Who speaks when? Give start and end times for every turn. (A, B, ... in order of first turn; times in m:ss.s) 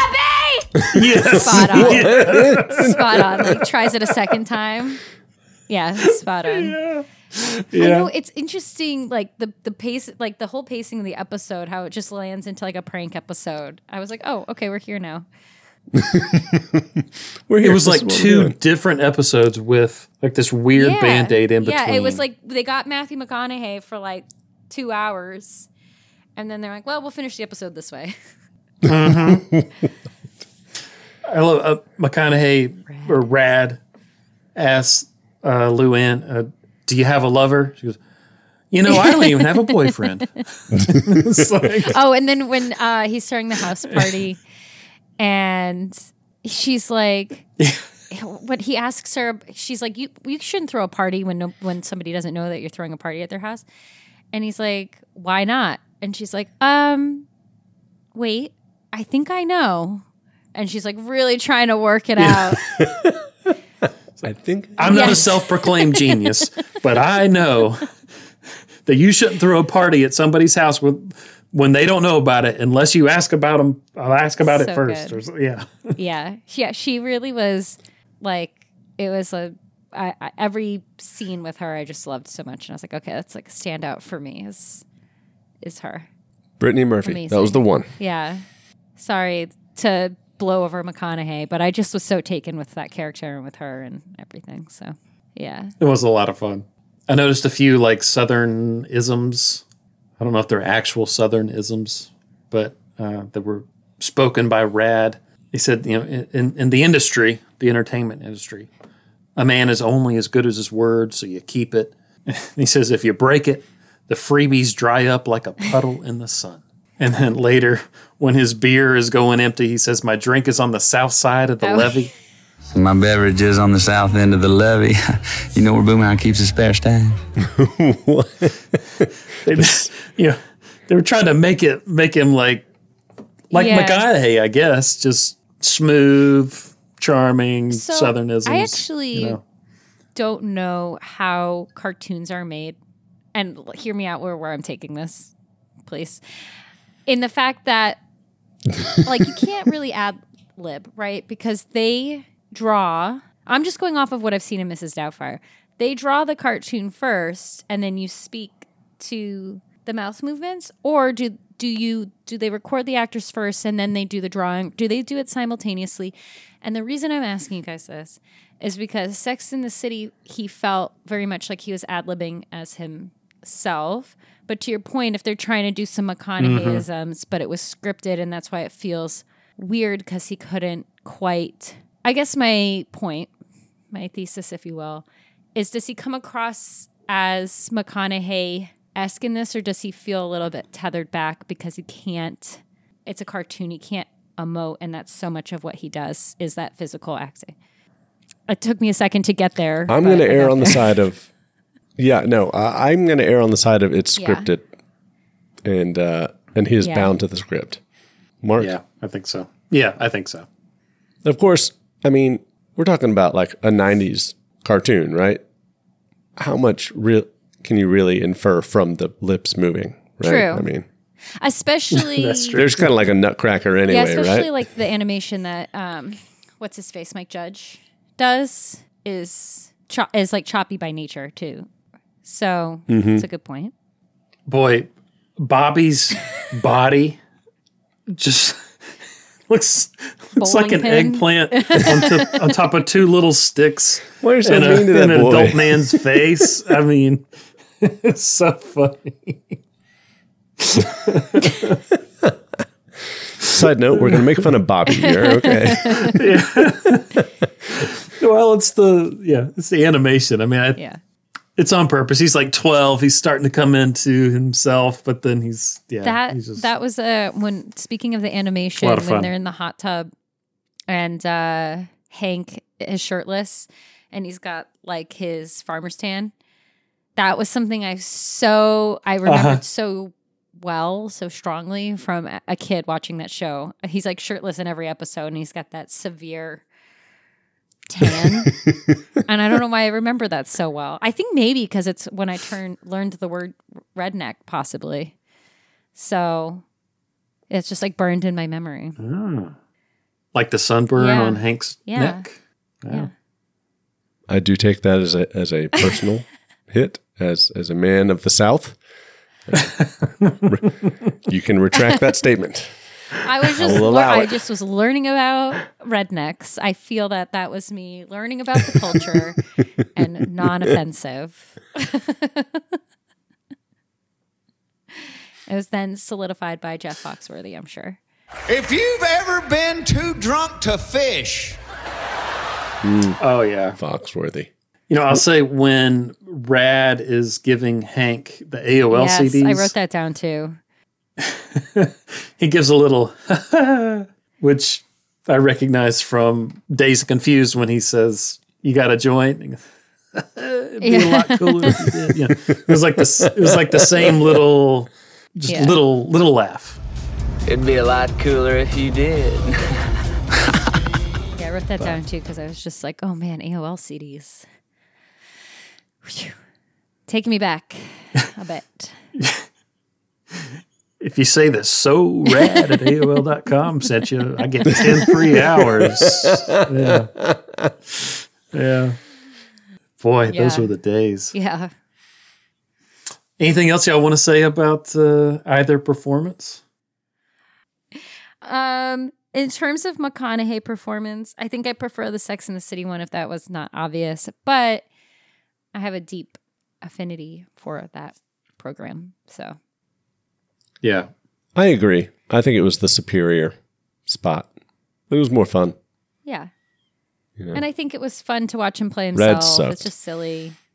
0:00.9-0:02.9 A
0:00.9-0:03.2 B
0:01.2-0:05.0 C
0:05.7-0:06.8 C
0:06.5-0:08.1 A
0:07.8-0:15.2 C
0:16.0-0:18.6 B
0:17.6-0:22.2 A
0:20.8-0:25.7 C
0:26.4-0:28.2 C
0:28.9-0:29.5 A
0:28.9-0:29.7 B
0:31.3-0:33.8 A
0:32.9-0:33.3 C
0:34.6-0:38.0 A
0:38.7-0:42.0 A
0:38.9-0:39.9 C
0:40.8-0:41.2 B
0:41.8-0:44.4 C
0:45.2-0:47.5 C
0:48.1-0:53.7 C
0:54.3-0:57.3 C
0:58.2-1:02.6 C
1:02.2-1:02.6 A
1:02.8-1:03.2 B
1:04.2-1:05.3 B
1:04.8-1:07.9 A
1:04.8-1:06.5 C
1:08.9-1:15.9 A
1:14.4-1:15.2 C
1:16.0-1:24.8 C
1:25.6-1:26.1 C
1:26.6-1:27.9 B
1:27.0-1:28.4 C
1:29.0-1:35.7 C
1:35.8-1:39.6 A
1:40.2-1:48.7 A
1:49.4-2:02.1 A
2:01.6-2:02.0 C
2:02.7-2:07.2 D
2:07.4-2:09.9 B
2:09.4-2:12.6 A
2:13.5-2:19.4 A
2:13.5-2:14.1 C
2:17.7-2:19.4 C
2:20.2-2:22.8 C
2:23.3-2:25.3 C
2:25.9-2:26.2 C
2:27.1-2:28.0 C
2:29.0-3:03.3 C
2:56.4-2:56.8 A
3:03.9-3:17.6 C
3:18.5-3:20.9 C
3:19.9-3:21.3 B
3:22.0-3:24.7 B
3:24.2-3:24.5 C
3:25.6-3:27.8 B
3:26.8-3:27.1 C
3:28.4-3:28.7 B
3:28.6-3:30.5 A
3:31.2-3:35.4 B
3:36.4-3:40.9 B
3:40.2-3:40.7 C
3:41.4-3:42.6 C
3:41.9-3:43.1 A
3:42.6-3:44.5 B
3:43.9-3:51.7 C
3:52.2-3:53.7 C
3:52.9-3:53.2 B
3:54.5-3:57.2 A
3:58.1-3:58.6 A
3:59.5-4:07.2 A
4:00.4-4:02.4 C
4:04.2-4:06.2 B
4:07.8-4:09.6 A
4:10.6-4:11.8 A
4:13.5-4:14.2 A
4:13.5-4:16.2 B
4:14.9-4:16.1 C
4:16.1-4:17.2 A
4:17.8-4:20.8 A
4:21.6-4:26.7 A
4:26.0-4:30.1 C
4:28.8-4:29.3 A
4:30.9-4:36.3 C
4:37.2-4:46.6 C
4:39.3-4:39.6 A
4:47.9-4:48.6 C
4:49.3-4:55.1 C
4:56.0-4:56.6 C
4:57.5-4:59.0 C
4:59.0-4:59.5 A
5:00.3-5:03.1 A
5:01.0-5:02.3 C
5:04.3-5:08.8 B
5:09.8-5:10.5 A
5:10.4-5:12.8 B
5:13.2-5:19.4 C
5:13.4-5:14.4 B
5:19.9-5:22.6 C
5:25.5-5:28.0 C
5:28.5-5:31.6 E
5:32.8-5:33.2 B
5:33.2-5:33.8 A
5:33.8-5:34.5 B
5:34.9-5:39.7 A
5:38.9-5:40.6 C
5:41.2-5:49.6 A
5:50.2-5:56.8 A
5:50.8-5:51.9 C
5:52.3-5:54.3 B
5:55.5-5:55.8 C
5:57.4-5:59.6 D
6:01.4-6:04.5 C
6:06.0-6:06.4 C
6:07.1-6:09.0 C
6:11.0-6:17.1 A
6:12.3-6:13.2 C
6:14.8-6:17.7 B
6:18.5-6:19.0 A
6:20.0-6:21.3 A
6:20.3-6:20.7 C
6:21.3-6:21.7 C
6:23.4-6:26.6 A
6:28.4-6:34.9 C
6:35.7-6:39.6 C
6:40.8-6:41.1 A
6:41.6-6:43.6 B
6:44.1-6:44.5 B
6:45.1-6:45.8 B
6:46.3-6:46.5 C
6:47.5-6:50.6 C
6:49.2-6:49.9 B